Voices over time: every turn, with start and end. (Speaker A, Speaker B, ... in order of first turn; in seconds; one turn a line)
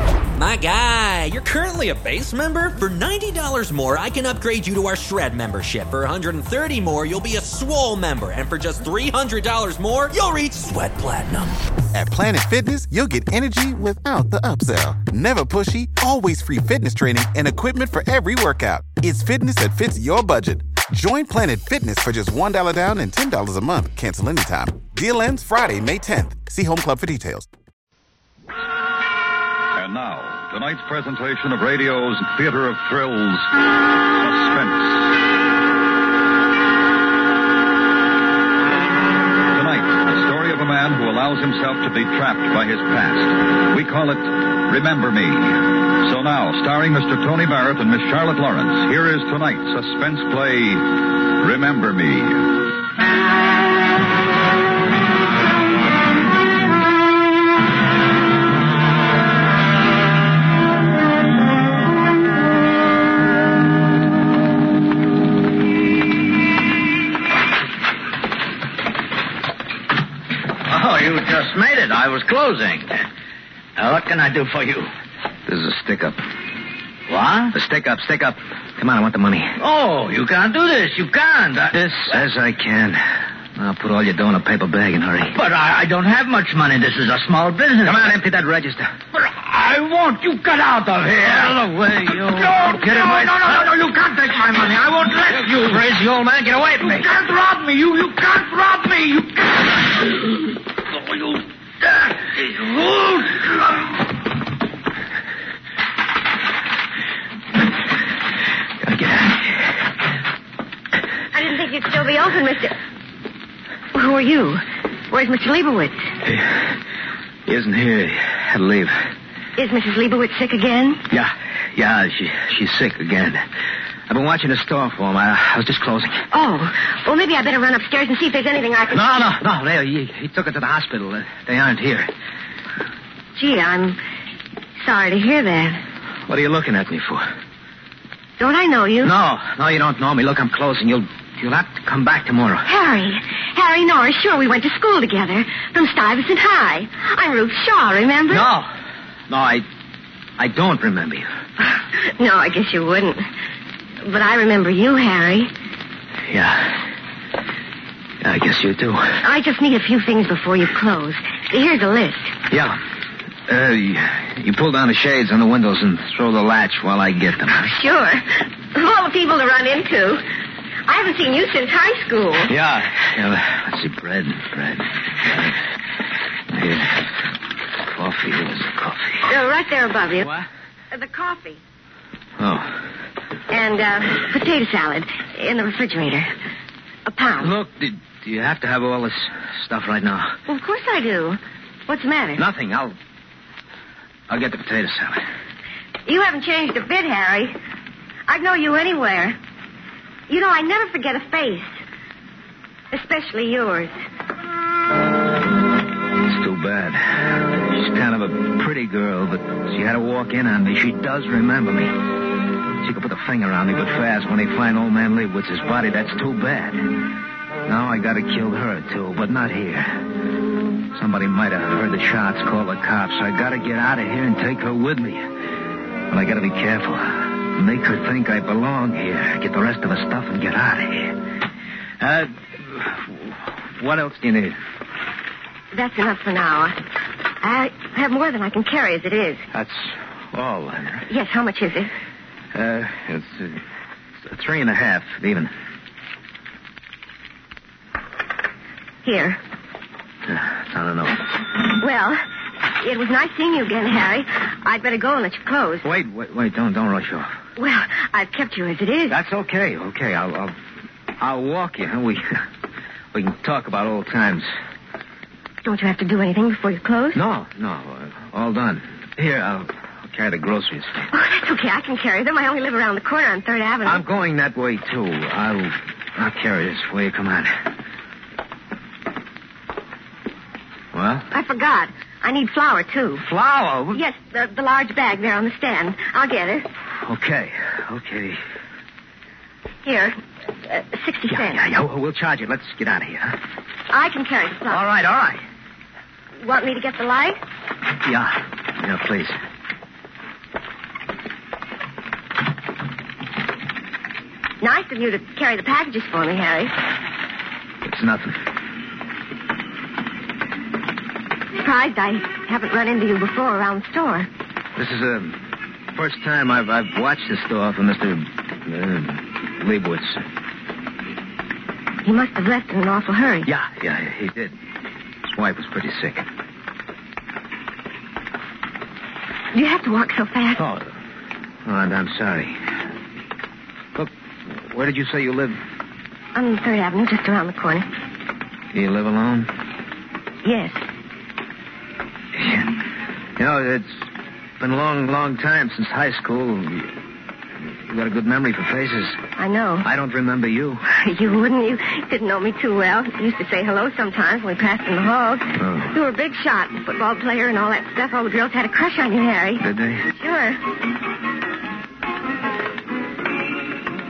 Speaker A: 0.4-11.6
Speaker B: 11.9-27.5
Speaker C: 29.8-33.6
Speaker C: 34.1-35.2
Speaker C: 39.5-52.5
Speaker D: 70.7-73.0
Speaker D: 73.8-74.9
Speaker E: 75.5-76.2
Speaker D: 77.1-77.5
Speaker E: 77.5-79.6
Speaker D: 79.6-82.2
Speaker E: 81.8-85.4
Speaker D: 85.3-88.1
Speaker E: 87.8-89.0
Speaker D: 89.1-104.0
Speaker E: 92.1-93.7
Speaker E: 95.4-95.9
Speaker E: 96.8-97.1
Speaker E: 108.8-109.7
Speaker F: 111.3-112.8
Speaker F: 113.9-116.1
Speaker E: 116.2-116.8
Speaker E: 117.5-119.0
Speaker F: 119.6-121.0
Speaker E: 121.1-123.4
Speaker E: 124.1-126.3
Speaker F: 126.3-129.3
Speaker E: 128.9-132.1
Speaker F: 133.4-134.0
Speaker F: 134.8-135.8
Speaker E: 136.3-137.2
Speaker F: 138.4-139.1
Speaker E: 139.0-142.7
Speaker F: 142.7-148.5
Speaker E: 148.3-148.7
Speaker E: 149.3-149.7
Speaker E: 150.4-151.3
Speaker F: 151.6-153.3
Speaker F: 154.0-155.5
Speaker E: 156.3-156.9
Speaker E: 158.2-159.2
Speaker F: 159.2-162.3
Speaker E: 162.5-162.8
Speaker E: 163.5-167.8
Speaker F: 167.6-170.2
Speaker F: 170.9-172.5
Speaker E: 172.5-175.6
Speaker E: 176.5-177.1
Speaker E: 177.8-179.3
Speaker F: 179.3-180.3
Speaker F: 180.9-181.6
Speaker E: 182.4-182.9
Speaker F: 183.5-186.3
Speaker F: 187.1-187.5
Speaker E: 187.4-190.4
Speaker F: 190.5-192.4
Speaker E: 192.4-192.9
Speaker E: 194.3-195.2
Speaker F: 196.1-197.6
Speaker F: 198.3-199.4
Speaker F: 200.3-201.8
Speaker F: 202.9-203.9
Speaker E: 206.3-211.9
Speaker E: 212.8-217.1
Speaker E: 217.7-220.1
Speaker E: 220.9-225.3
Speaker E: 226.1-231.2
Speaker E: 232.0-234.6
Speaker F: 235.7-236.8
Speaker F: 237.4-239.5
Speaker E: 239.5-241.1
Speaker F: 241.1-241.9
Speaker E: 242.5-243.6
Speaker E: 244.2-245.5
Speaker F: 249.0-249.4
Speaker E: 250.2-251.3
Speaker F: 251.7-252.2
Speaker F: 252.8-255.9
Speaker E: 255.8-257.3
Speaker F: 257.6-259.2
Speaker E: 259.1-260.6
Speaker E: 261.2-262.4
Speaker E: 263.1-264.5
Speaker F: 265.6-267.2
Speaker E: 267.1-271.0
Speaker F: 271.1-274.0
Speaker E: 273.9-277.6
Speaker E: 280.9-281.3
Speaker F: 281.3-283.2
Speaker E: 283.2-284.0
Speaker F: 283.9-286.7
Speaker E: 287.0-288.4
Speaker F: 289.8-291.6
Speaker E: 291.3-293.4
Speaker F: 293.9-294.8
Speaker E: 294.7-295.4
Speaker F: 296.4-297.4
Speaker E: 298.0-299.4
Speaker F: 304.6-306.8
Speaker E: 307.8-308.4
Speaker F: 311.6-314.3
Speaker E: 314.8-320.2
Speaker F: 322.0-323.5
Speaker E: 323.5-324.6
Speaker E: 325.3-326.3
Speaker F: 329.5-330.6
Speaker E: 330.6-331.0
Speaker E: 331.6-332.7
Speaker E: 333.9-335.6
Speaker F: 336.3-337.9
Speaker E: 338.7-339.5
Speaker F: 340.4-340.8
Speaker E: 342.4-342.8
Speaker E: 343.4-344.1
Speaker E: 344.6-346.9
Speaker E: 347.6-349.2
Speaker F: 349.4-349.9
Speaker E: 349.8-350.8
Speaker F: 350.9-360.6
Speaker E: 355.6-356.0
Speaker E: 359.6-360.1